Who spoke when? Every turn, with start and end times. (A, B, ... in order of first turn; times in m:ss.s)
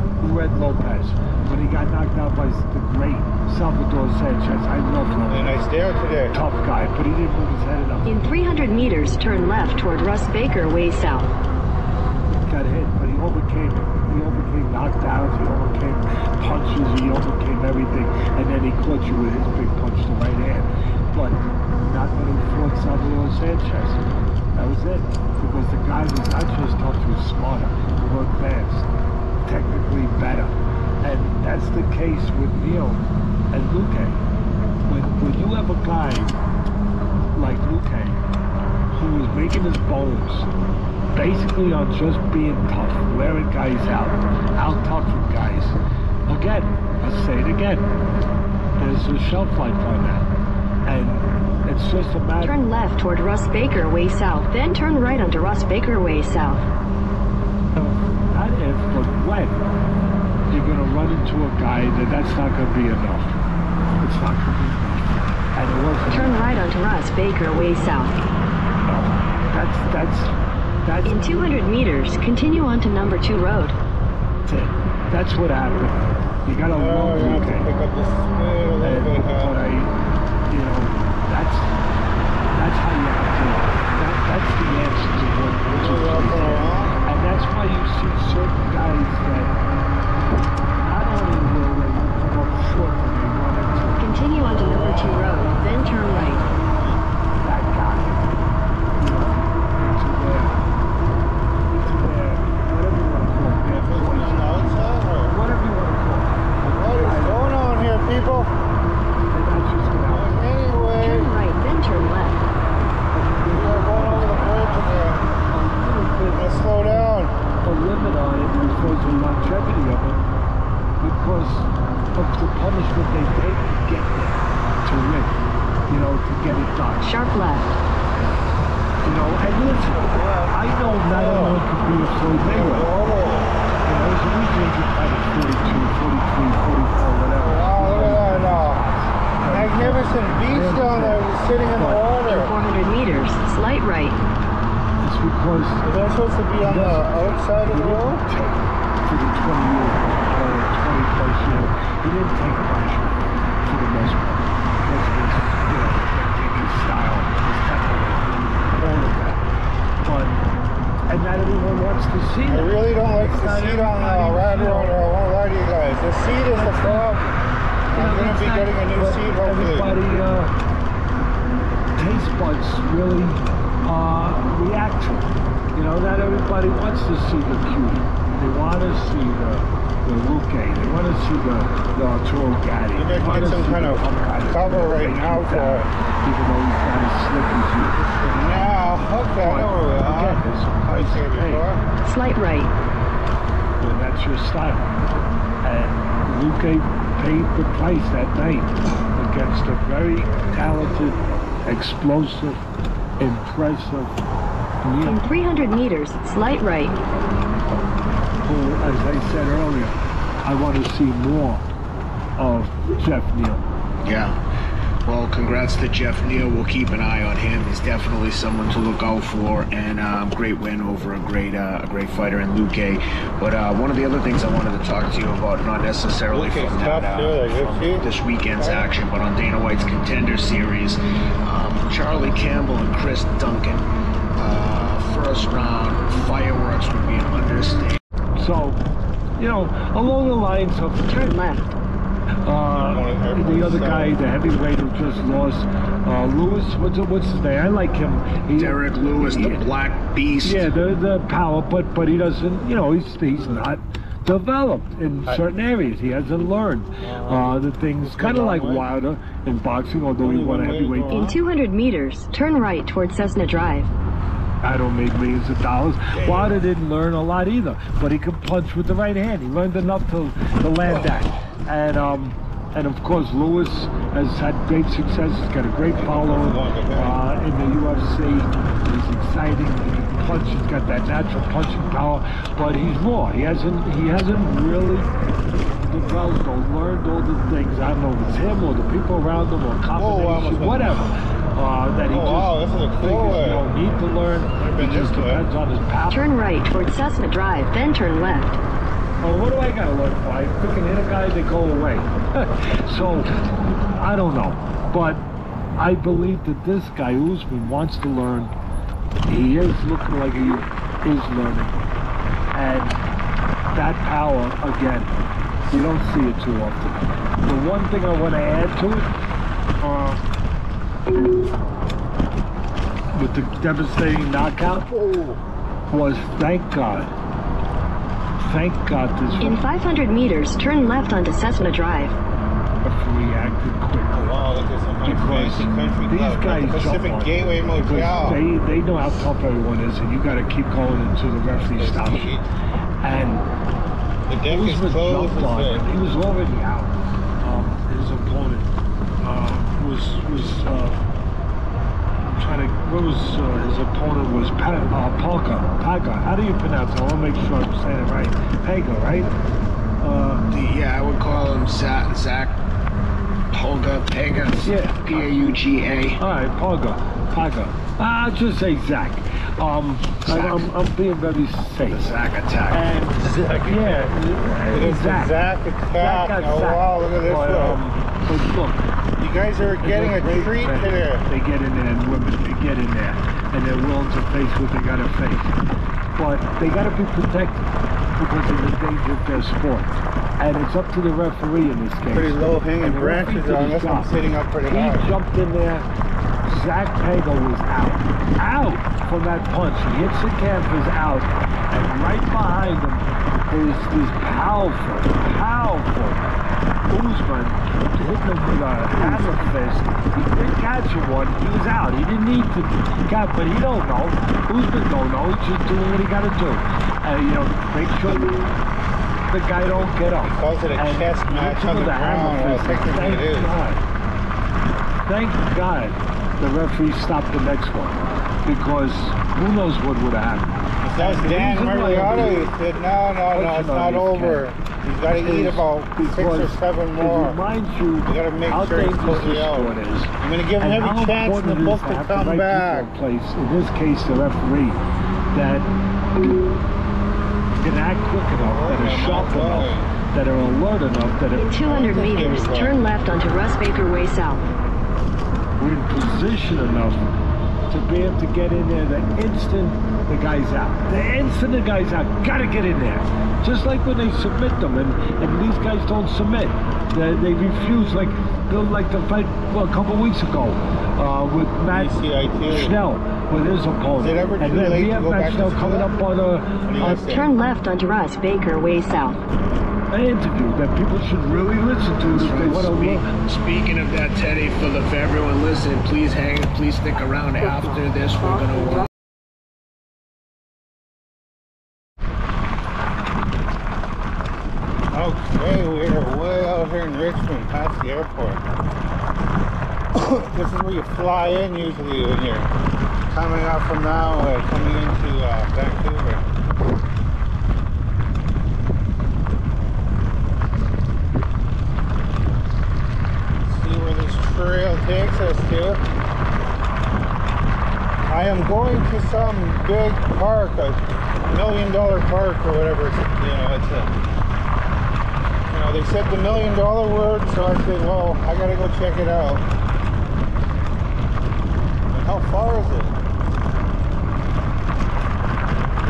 0:00.2-0:05.6 A
0:05.3-0:06.4 B
0:06.3-0:08.1 A
0:08.1-0:11.3 C
0:12.5-0:24.0 A
0:24.6-0:28.9 A
0:29.4-0:34.2 A
0:34.9-0:36.4 A
0:37.4-0:38.2 A
0:38.9-0:40.5 A
0:41.1-0:47.9 A
0:48.8-0:50.3 A
0:50.9-0:52.6 A
0:52.4-0:56.7 C
0:57.8-0:59.6 A
1:00.5-1:03.4 A
1:04.0-1:06.4 A
1:06.1-1:08.2 C
1:08.9-1:11.4 A
1:11.0-1:13.8 C
1:14.5-1:17.7 A
1:16.6-1:19.7 B
1:18.8-1:19.9 A
1:20.5-1:21.8 A
1:22.5-1:29.5 A
1:25.7-1:27.0 B
1:30.8-1:34.2 A
1:34.0-1:36.4 C
1:34.4-1:37.0 B
1:37.4-1:38.3 A
1:39.0-1:40.6 A
1:41.8-1:47.5 A
1:43.7-1:45.4 B
1:46.6-1:48.5 B
1:49.3-1:50.4 A
1:50.0-1:51.4 B
1:51.0-1:52.4 C
1:53.1-1:54.9 A
1:53.5-1:55.2 B
1:55.5-1:56.6 A
1:56.3-1:57.4 B
1:57.6-2:00.3 A
2:01.0-2:07.2 A
2:07.0-2:07.8 C
2:09.0-2:12.9 A
2:10.0-2:11.6 B
2:12.4-2:13.5 B
2:13.8-2:22.1 A
2:17.4-2:18.8 B
2:19.4-2:22.5 B
2:22.2-2:24.2 C
2:25.0-2:25.9 A
2:25.8-2:28.2 B
2:26.6-2:39.4 A
2:40.0-2:40.4 A
2:41.1-2:45.0 A
2:42.5-2:47.4 B
2:46.5-2:47.1 A
2:47.9-2:50.0 B
2:47.9-2:50.5 A
2:52.0-3:08.1 A
3:02.9-3:05.9 B
3:08.1-3:11.8 B
3:09.4-3:11.7 A
3:12.0-3:12.7 C
3:13.8-3:14.9 A
3:15.6-3:22.6 A
3:23.2-3:24.2 A
3:24.8-3:25.3 A
3:25.0-3:27.0 C
3:28.4-3:31.7 A
3:32.4-3:33.7 A
3:34.0-3:34.4 D
3:35.0-3:58.0 D
3:46.3-3:48.9 B
3:58.4-3:58.8 A
3:59.4-4:01.4 A
4:01.1-4:01.7 C
4:02.4-4:09.7 A
4:02.7-4:04.2 B
4:08.6-4:10.7 D
4:10.4-4:21.2 A
4:17.0-4:18.9 B
4:20.2-4:21.4 B
4:21.1-4:23.9 C
4:24.6-4:45.1 A
4:26.2-4:26.6 D
4:35.8-4:37.3 B
4:45.8-4:56.3 A
4:49.9-4:51.1 B
4:52.1-4:53.7 B
4:54.4-4:55.5 B
4:56.1-4:58.5 C
4:59.2-5:03.4 A
5:03.9-5:05.2 A
5:05.8-5:08.6 A
5:09.2-5:11.8 A
5:12.5-5:13.0 A
5:13.7-5:15.1 A
5:15.7-5:19.1 A
5:19.8-5:20.2 A
5:23.1-5:25.0 A
5:24.9-5:25.4 B
5:25.9-5:27.1 A
5:28.4-5:29.6 A
5:29.4-5:32.2 C
5:32.8-5:34.4 A
5:34.1-5:38.4 B
5:35.0-5:42.4 A
5:41.4-5:42.5 B
5:43.0-5:43.5 A
5:44.3-5:45.9 B
5:44.5-5:51.0 A
5:52.3-5:59.3 A
6:00.0-6:00.4 A
6:00.5-6:02.6 D
6:03.5-6:06.2 D
6:04.6-6:05.6 A
6:06.2-6:12.2 A
6:10.3-6:10.7 D
6:11.9-6:12.9 D
6:12.7-6:13.1 A
6:12.7-6:14.1 B
6:13.6-6:15.4 A
6:14.7-6:17.8 B
6:16.0-6:18.8 A
6:19.2-6:21.2 B
6:19.8-6:25.6 A
6:26.2-6:27.6 A
6:28.2-6:35.9 A
6:32.1-6:35.1 B
6:36.4-6:46.2 A
6:46.9-6:58.4 A
6:49.0-6:49.5 B
6:59.3-7:03.8 A
6:59.6-7:03.6 B
7:05.1-7:12.5 A
7:10.8-7:17.4 B
7:13.3-7:14.5 A
7:15.2-7:26.4 A
7:18.1-7:22.9 B
7:27.6-7:31.8 A
7:28.4-7:29.9 B
7:31.3-7:34.4 C
7:31.6-7:32.9 B
7:35.6-7:37.0 A
7:37.7-7:56.7 A
7:51.7-7:52.8 B
7:54.0-7:55.9 B
7:56.6-7:57.3 B
7:56.8-7:59.2 C
7:59.9-8:03.1 A
8:02.0-8:08.9 D
8:14.9-8:18.4 B
8:19.9-8:22.5 B
8:23.1-8:26.2 B
8:33.4-8:35.8 B
8:38.1-8:43.9 B
8:45.5-8:49.5 B
8:51.9-8:53.0 B